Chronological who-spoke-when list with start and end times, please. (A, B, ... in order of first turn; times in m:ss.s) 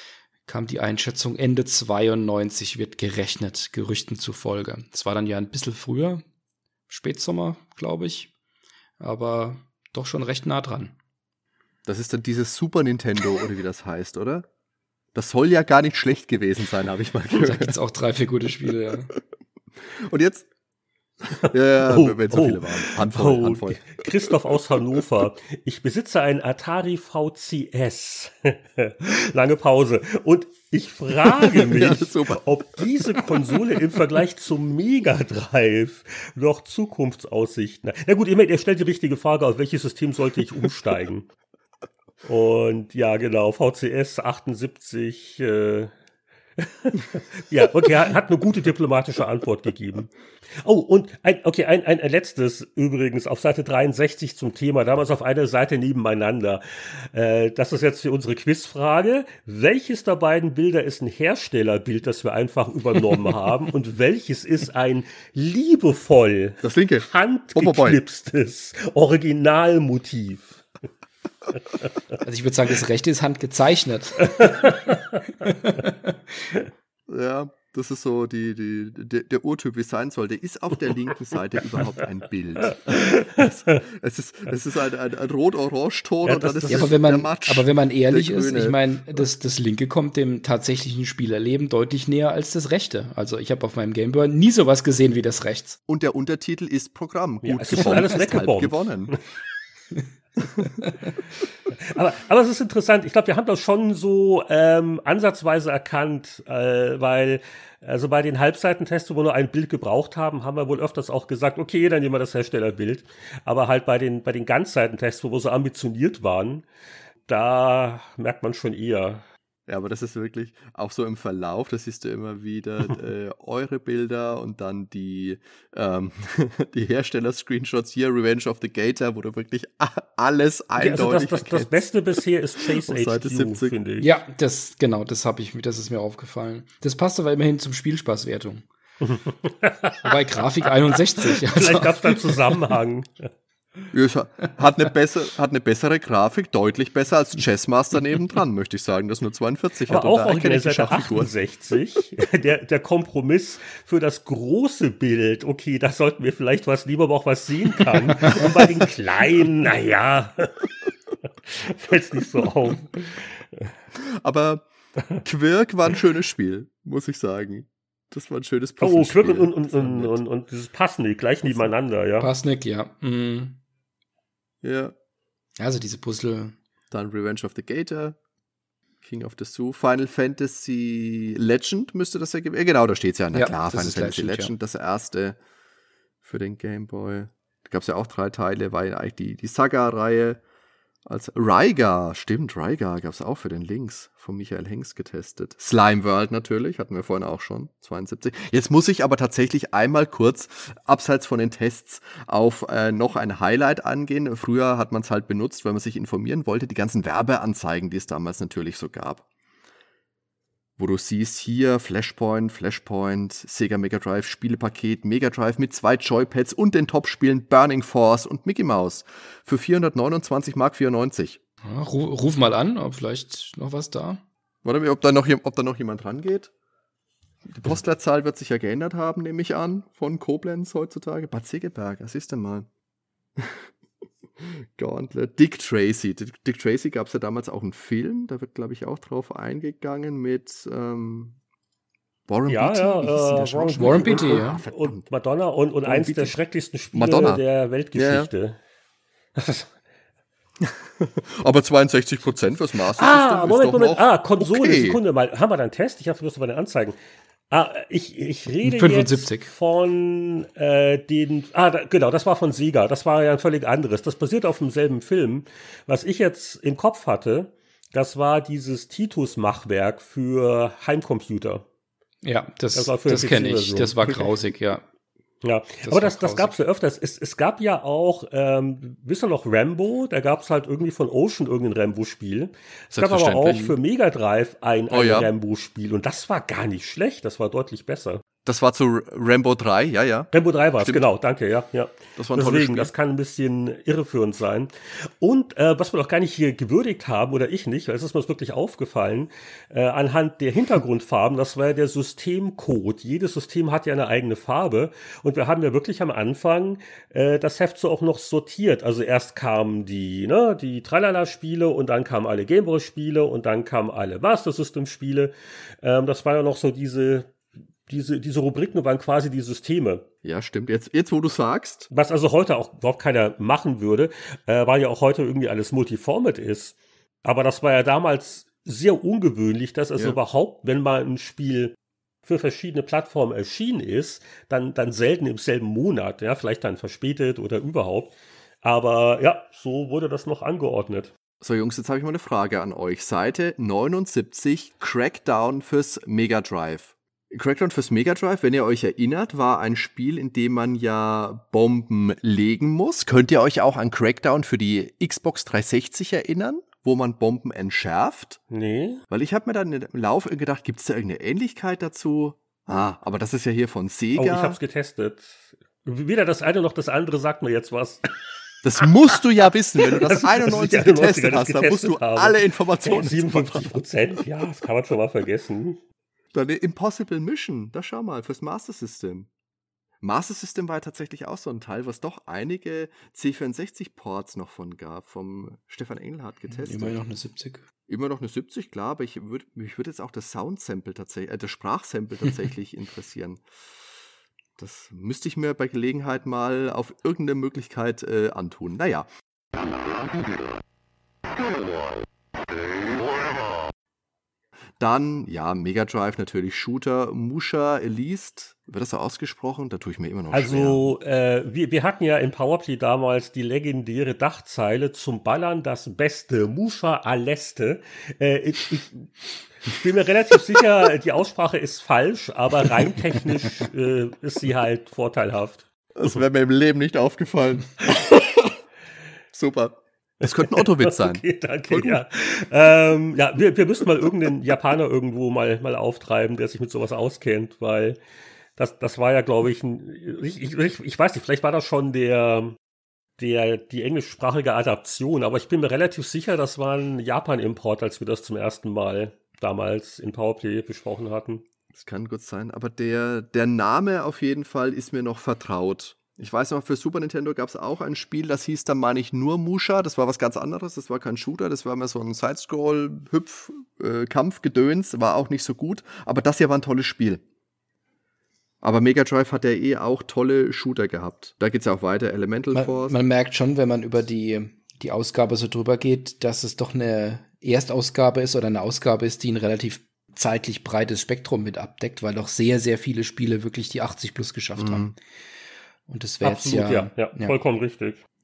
0:00.4-0:06.2 A
0:06.9-0:08.3 A
0:09.0-0:11.0 A
0:11.8-0:14.4 B
0:15.1-0:17.7 B
0:17.3-0:19.1 A
0:19.9-0:20.4 B
0:21.3-0:24.2 B
0:21.8-0:41.3 C
0:31.3-0:33.3 B
0:42.2-0:45.9 C
0:46.6-0:50.1 C
0:50.6-1:10.6 C
1:06.6-1:08.0 B
1:12.2-1:14.4 A
1:14.2-1:15.4 C
1:15.4-1:16.1 A
1:17.1-1:28.8 B
1:22.7-1:23.8 C
1:26.2-1:26.9 C
1:26.7-1:35.8 A
1:35.9-1:39.2 B
1:37.4-1:39.2 C
1:41.8-1:56.6 C
1:57.2-1:59.2 C
1:59.7-2:11.9 B
2:10.8-2:14.1 C
2:12.7-2:13.7 B
2:14.0-2:18.6 A
2:19.0-2:20.1 C
2:20.0-2:22.5 A
2:20.9-2:23.3 C
2:23.9-2:31.3 B
2:29.9-2:40.7 C
2:41.4-2:43.7 C
2:44.0-2:44.7 B
2:45.2-2:50.2 B
2:48.8-2:52.3 C
2:51.4-2:51.7 B
2:52.2-2:53.6 A
2:54.6-2:54.9 B
2:55.6-2:56.6 A
2:56.9-2:58.2 B
2:59.0-3:05.4 B
3:03.3-3:04.5 A
3:06.2-3:10.4 B
3:11.0-3:29.2 B
3:30.8-3:41.4 B
3:41.6-3:44.2 A
3:44.6-3:46.5 B
3:47.5-3:52.7 B
3:53.4-3:53.7 B
3:54.4-4:01.4 B
4:02.3-4:05.1 B
4:02.4-4:08.6 C
4:03.7-4:04.6 A
4:05.8-4:06.4 B
4:06.9-4:07.4 B
4:07.9-4:08.3 B
4:09.3-4:09.7 C
4:10.6-4:15.0 B
4:12.9-4:16.9 C
4:17.5-4:31.6 C
4:18.6-4:19.5 A
4:32.2-4:34.8 A
4:32.7-4:34.3 C
4:35.4-4:48.2 C
4:35.8-4:36.5 A
4:42.9-4:43.8 B
4:44.9-4:45.3 B
4:48.4-4:51.0 B
4:50.3-5:17.3 C
4:52.2-4:52.9 B
5:17.8-5:20.0 C
5:20.2-5:21.9 B
5:21.9-5:41.1 C
5:41.4-5:58.4 B
5:58.5-5:59.0 C
5:59.1-6:04.6 B
6:04.2-6:08.1 C
6:08.6-6:13.7 B
6:09.8-6:15.8 C
6:16.3-6:19.3 B
6:20.0-6:27.0 B
6:26.5-6:27.6 A
6:27.9-6:33.4 B
6:34.6-6:39.1 B
6:44.8-6:50.9 B
6:50.3-6:59.1 C
6:59.6-7:06.2 C
7:06.0-7:08.5 B
7:09.3-7:12.0 B
7:10.2-7:18.0 C
7:18.6-7:22.6 C
7:23.2-7:31.4 C
7:31.7-7:47.2 B
7:48.6-7:53.0 B
7:52.5-8:04.9 A
8:04.6-8:04.9 B
8:05.9-8:07.4 A
8:06.2-8:08.0 C